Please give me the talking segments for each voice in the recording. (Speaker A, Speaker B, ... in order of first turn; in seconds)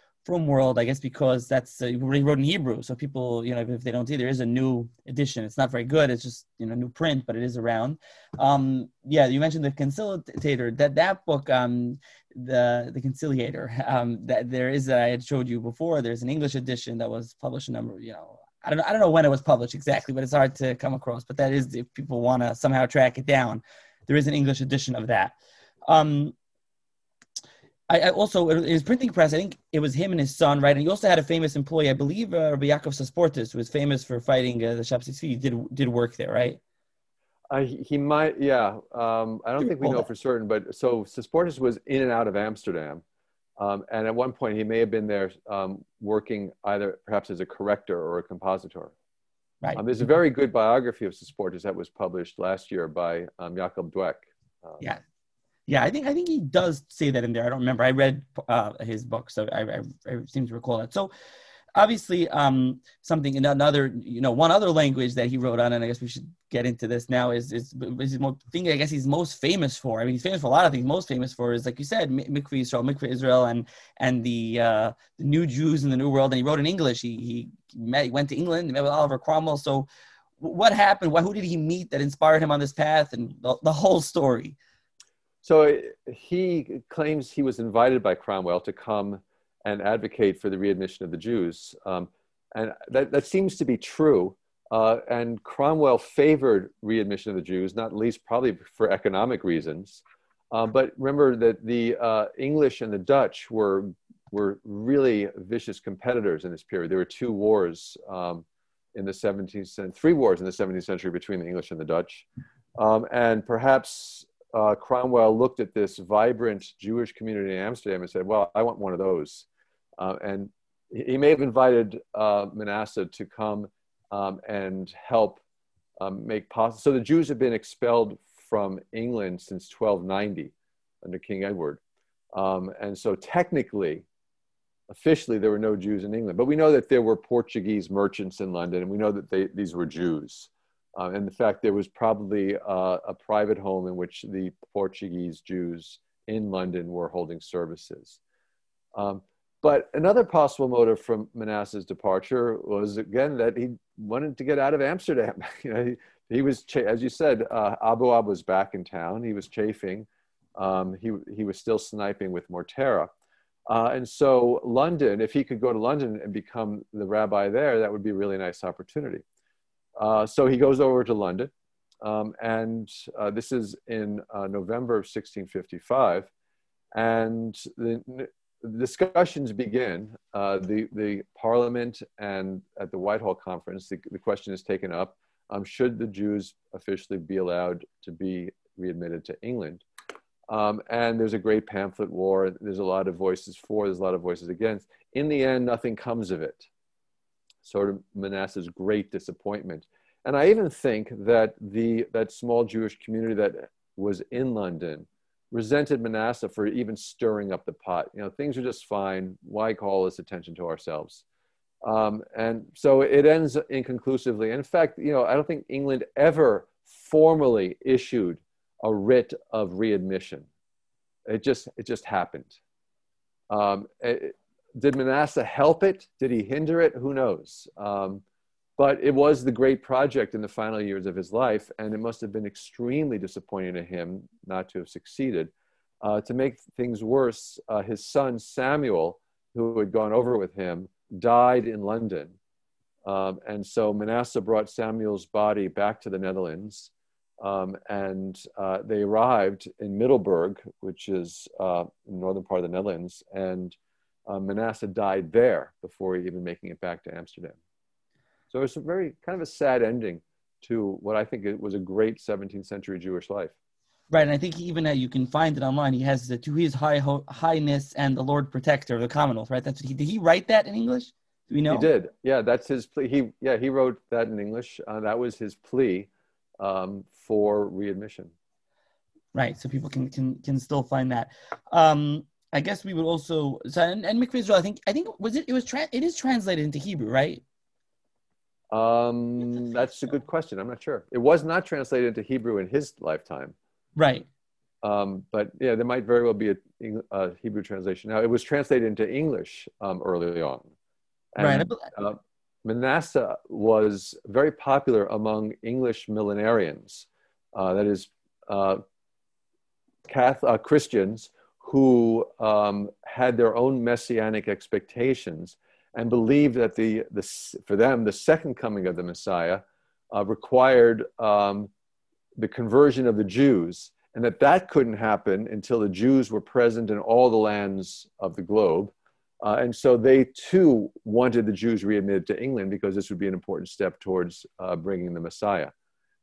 Speaker A: 0.2-25.4, 25.9-26.3, 27.9-36.6, 39.6-40.0, 55.7-61.1, 61.8-79.9, 80.4-84.6, 264.1-271.9, 279.3-287.4, 294.0-294.3, 301.4-301.9
Speaker B: 37.5-43.0, 43.6-48.9, 49.7-54.8, 85.4-119.5, 120.0-125.4, 126.0-131.8, 132.3-134.0, 134.9-148.2, 148.9-163.1, 163.7-169.2, 170.0-176.3, 176.9-189.8, 190.5-196.7, 197.6-211.2, 211.8-220.5, 221.3-222.6, 223.5-228.2, 228.8-242.4, 243.0-253.8, 254.3-257.6, 258.5-263.6, 271.7-278.3, 288.7-293.5, 294.8-300.7, 301.3-308.8, 310.1-321.7, 322.4-335.7